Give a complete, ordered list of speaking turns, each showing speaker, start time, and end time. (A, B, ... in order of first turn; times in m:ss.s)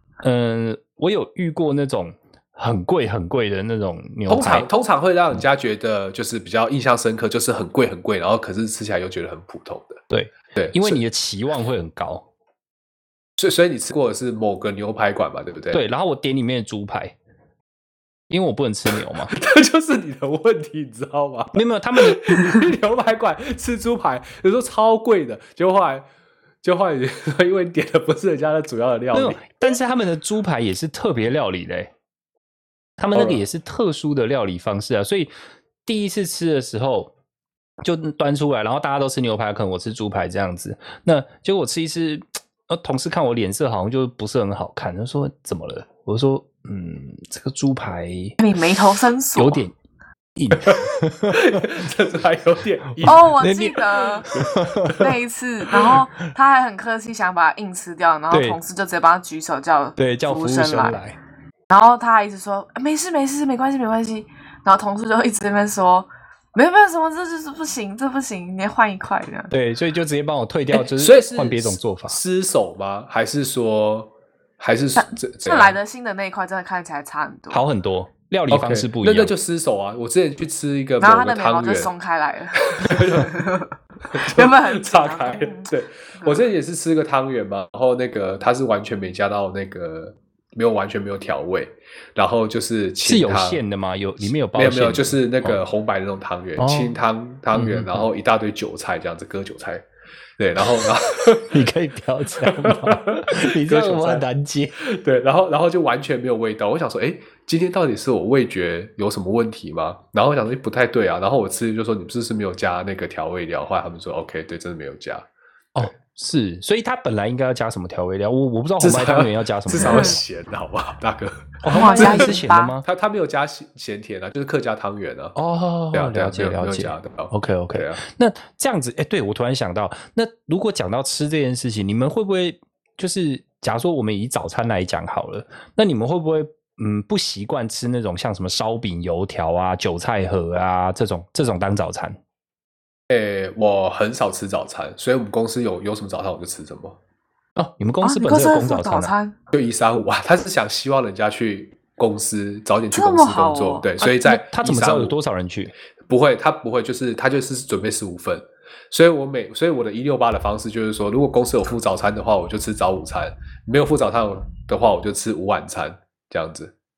0:00.2-0:04.7 A
0:04.3-0:10.0 B
0:10.1-0:12.2 A
0:10.5-0:11.0 B
0:13.4-0:15.8 B
0:15.7-0:17.1 A
0:18.3-0:19.3 A
0:19.3-0:26.0 B
0:21.5-0:22.4 A
0:26.6-0:29.7 B
0:29.1-0:31.9 A
0:33.0-0:35.3 A
0:33.1-0:33.4 B
0:35.8-0:37.1 A
0:37.8-0:48.4 A
0:48.4-0:49.6 C
0:49.4-0:49.7 A
0:50.3-0:51.7 A
0:50.5-0:50.8 B
0:51.3-0:53.3 B
0:53.0-0:55.1 A
0:53.0-0:54.3 C
0:55.0-1:01.0 C
0:55.7-0:56.0 A
0:58.3-0:58.6 A
1:00.0-1:01.2 A
1:01.7-1:09.5 C
1:09.5-1:12.2 A
1:10.7-1:15.8 B
1:15.0-1:17.6 C
1:17.5-1:19.3 A
1:18.5-1:21.9 B
1:21.0-1:26.5 C
1:22.7-1:23.4 B
1:24.1-1:33.6 B
1:33.0-1:35.6 A
1:34.2-1:39.8 B
1:36.6-1:37.0 A
1:37.5-1:38.1 A
1:40.4-1:41.6 B
1:40.8-1:44.8 A
1:42.4-1:44.2 B
1:44.8-1:55.2 B
1:55.7-2:00.2 A
1:58.8-2:02.3 B
1:59.8-2:00.2 C
2:01.6-2:02.8 A
2:01.7-2:02.7 C
2:02.8-2:05.3 B
2:05.4-2:22.2 A
2:05.9-2:08.0 B
2:23.1-2:27.0 B
2:27.6-2:29.1 A
2:28.0-2:29.3 C
2:29.5-2:35.1 B
2:32.9-2:33.9 C
2:34.0-2:35.7 A
2:36.0-2:46.7 B